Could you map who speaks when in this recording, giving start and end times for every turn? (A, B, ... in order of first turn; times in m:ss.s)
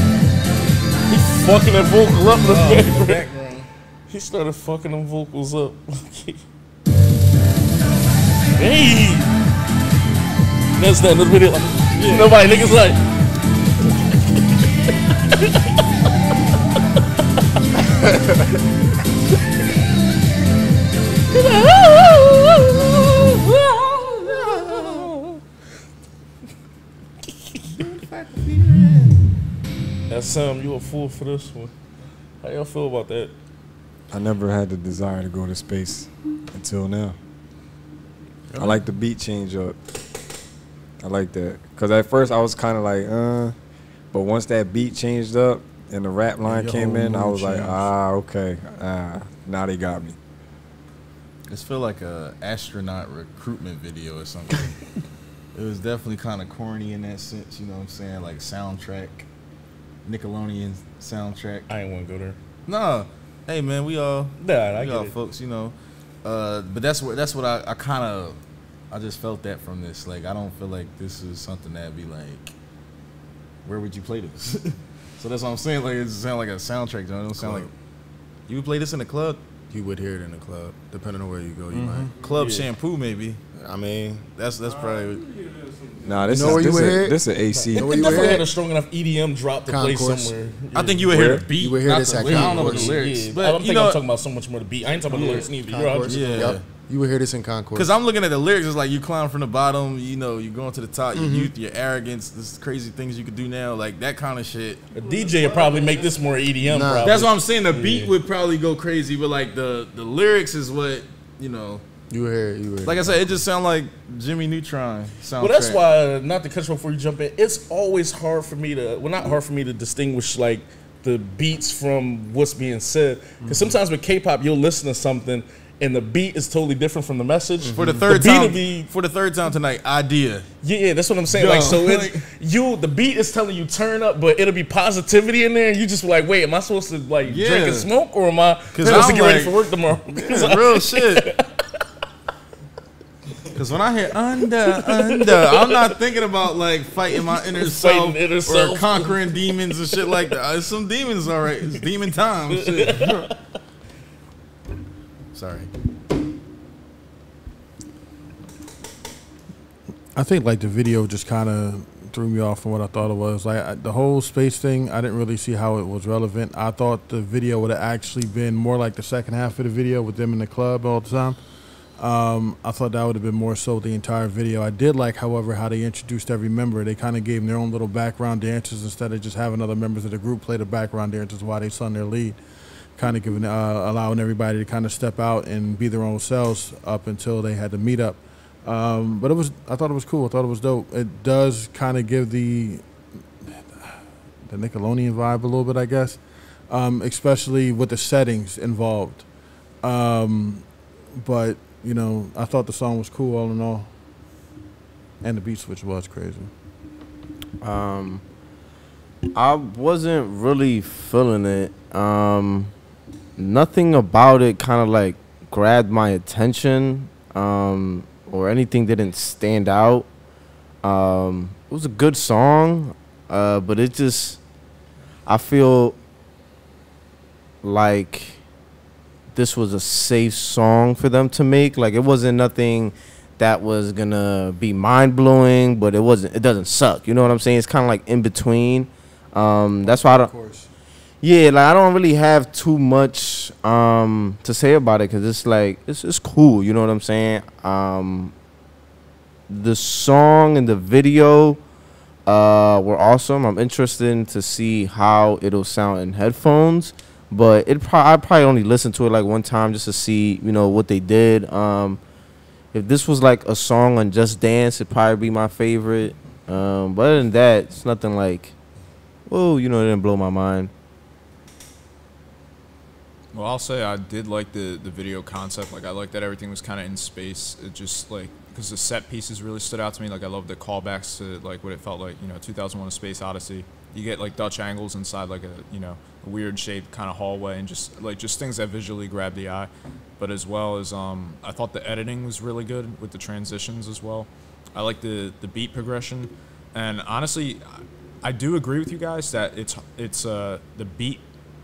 0:01.1-0:03.2 A
0:02.4-0:03.7 B
0:04.1-0:06.4 A
0:08.6-0:09.3 A
0:10.7-0:13.0 A
0:11.9-0:12.3 B
0:15.3-0:15.8 A
0:21.3-0:25.3 A
0:23.9-0:25.1 B
0:27.7-0:29.2 B
0:30.1-0:31.7 A
0:32.4-0:33.3 A
0:34.1-0:37.2 C
0:38.6-0:39.8 C
0:41.0-0:43.6 C
0:44.1-0:50.2 C
0:46.4-0:47.9 D
0:51.5-0:54.8 B
0:55.5-0:59.3 B
1:00.0-1:01.7 B
1:01.7-1:02.4 A
1:02.7-1:08.4 B
1:04.4-1:05.2 A
1:08.9-1:12.6 B
1:13.6-1:17.7 B
1:17.4-1:17.7 E
1:18.5-1:19.4 B
1:19.7-1:22.1 E
1:21.7-1:23.4 B
1:22.3-1:22.7 A
1:23.6-1:24.3 E
1:24.4-1:25.3 B
1:26.0-1:28.3 C
1:26.2-1:28.5 E
1:27.7-1:31.1 A
1:27.8-1:28.2 B
1:29.7-1:30.3 E
1:30.7-1:34.0 B
1:31.2-1:31.4 C
1:31.4-1:33.0 E
1:32.4-1:36.5 A
1:35.1-1:35.5 B
1:35.1-1:38.0 E
1:36.0-1:36.6 B
1:37.7-1:44.9 B
1:41.1-1:41.5 E
1:44.9-1:48.1 A
1:46.6-1:47.3 E
1:47.0-1:51.8 B
1:52.1-1:53.4 E
1:52.8-1:55.8 B
1:55.4-2:08.9 A
2:07.6-2:10.5 B
2:10.6-2:21.8 A
2:11.3-2:12.2 B
2:17.2-2:17.9 B
2:18.7-2:19.6 B
2:20.1-2:21.3 B
2:23.6-2:33.2 B
2:24.6-2:26.0 A
2:27.5-2:29.3 A
2:32.5-2:33.4 A
2:35.4-2:35.7 B
2:40.2-2:51.4 D
2:52.0-3:02.4 D
3:03.0-3:12.8 D
3:13.4-3:19.3 D
3:19.8-3:23.9 D
3:25.2-3:26.5 D
3:27.6-3:28.2 F
3:29.3-3:32.7 F
3:33.4-3:40.1 F
3:40.8-3:44.4 F
3:45.3-3:46.0 F
3:47.6-3:48.4 F
3:49.4-4:00.3 F
3:59.8-4:00.7 D
4:01.2-4:08.3 F
4:09.5-4:11.6 F
4:12.3-4:22.0 F
4:22.7-4:28.5 F
4:29.3-4:30.7 F
4:33.3-5:01.2 G